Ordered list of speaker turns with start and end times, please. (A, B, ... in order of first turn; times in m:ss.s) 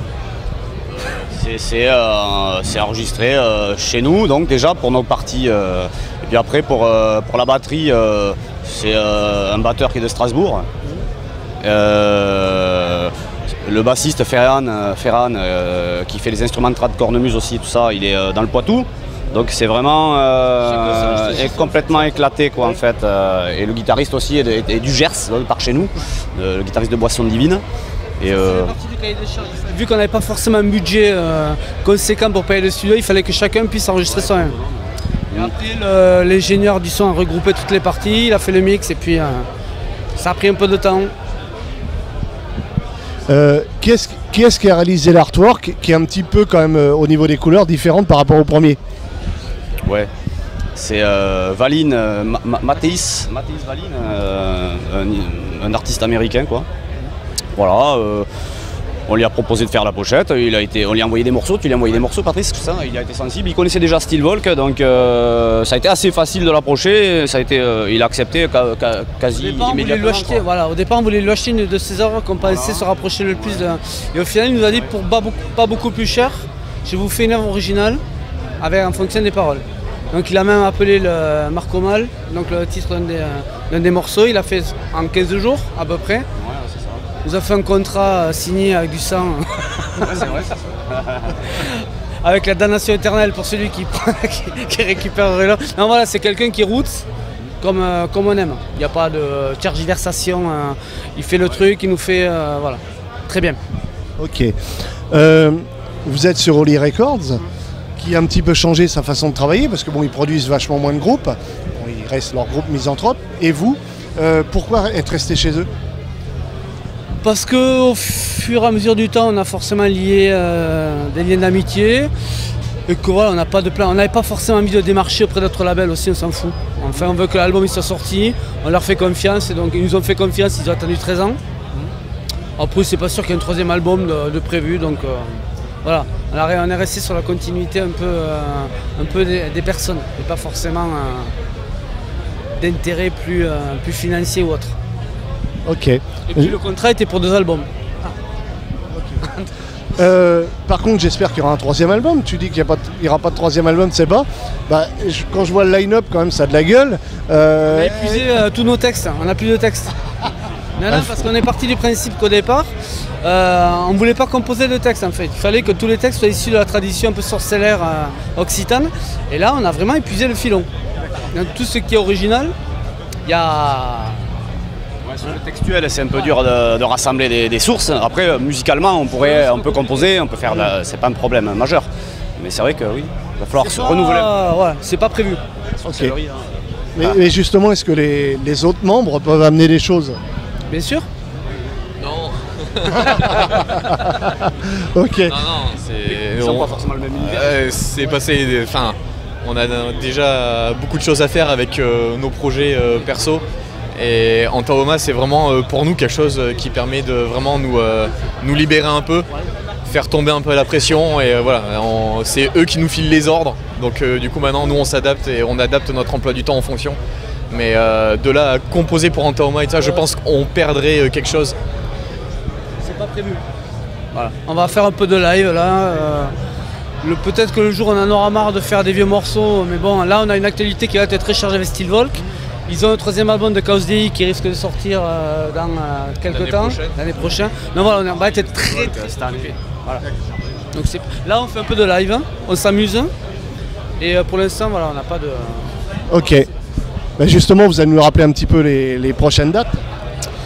0:01.1-0:10.7 A
0:11.6-0:27.6 A
0:20.6-0:22.3 B
0:28.2-0:28.7 A
0:28.2-0:34.6 B
0:34.1-0:35.5 A
0:35.3-0:39.5 B
0:40.2-0:41.1 B
0:43.3-0:48.8 C
0:50.8-0:56.7 A
0:57.6-0:58.3 A
0:59.1-1:10.4 A
1:09.4-1:18.0 B
1:12.4-1:13.6 A
1:18.6-1:26.3 B
1:26.4-1:27.1 A
1:27.2-1:30.3 B
1:30.0-1:31.5 A
1:31.5-1:37.1 B
1:37.6-1:43.6 B
1:44.2-1:44.5 C
1:45.1-1:47.4 C
1:48.0-1:55.7 C
1:57.2-2:02.1 B
2:02.9-2:11.4 B
2:12.6-2:21.3 B
2:22.6-2:24.8 B
2:25.6-2:26.6 C
2:26.3-2:27.7 B
2:28.9-2:29.2 C
2:29.2-2:29.5 B
2:29.9-2:38.2 C
2:37.7-2:40.0 B
2:40.8-2:42.7 B
2:40.9-2:41.2 C
2:43.2-2:50.7 B
2:51.3-2:52.5 B
2:53.2-2:54.3 B
2:55.0-3:04.3 A
2:59.2-3:00.1 B
3:03.6-3:05.4 B
3:05.8-3:07.2 A
3:05.8-3:06.2 C
3:07.0-3:10.2 C
3:10.7-3:11.1 B
3:12.0-3:13.8 D
3:13.5-3:15.4 C
3:15.3-3:29.3 D
3:16.0-3:18.1 A
3:29.9-3:37.0 D
3:37.5-3:41.6 D
3:42.8-3:43.4 B
3:44.1-3:46.3 B
3:47.0-3:59.6 B
3:56.3-3:57.1 D
3:58.8-3:59.5 A
4:00.7-4:03.1 B
4:04.0-4:05.7 B
4:06.1-4:06.5 C
4:07.2-4:09.8 C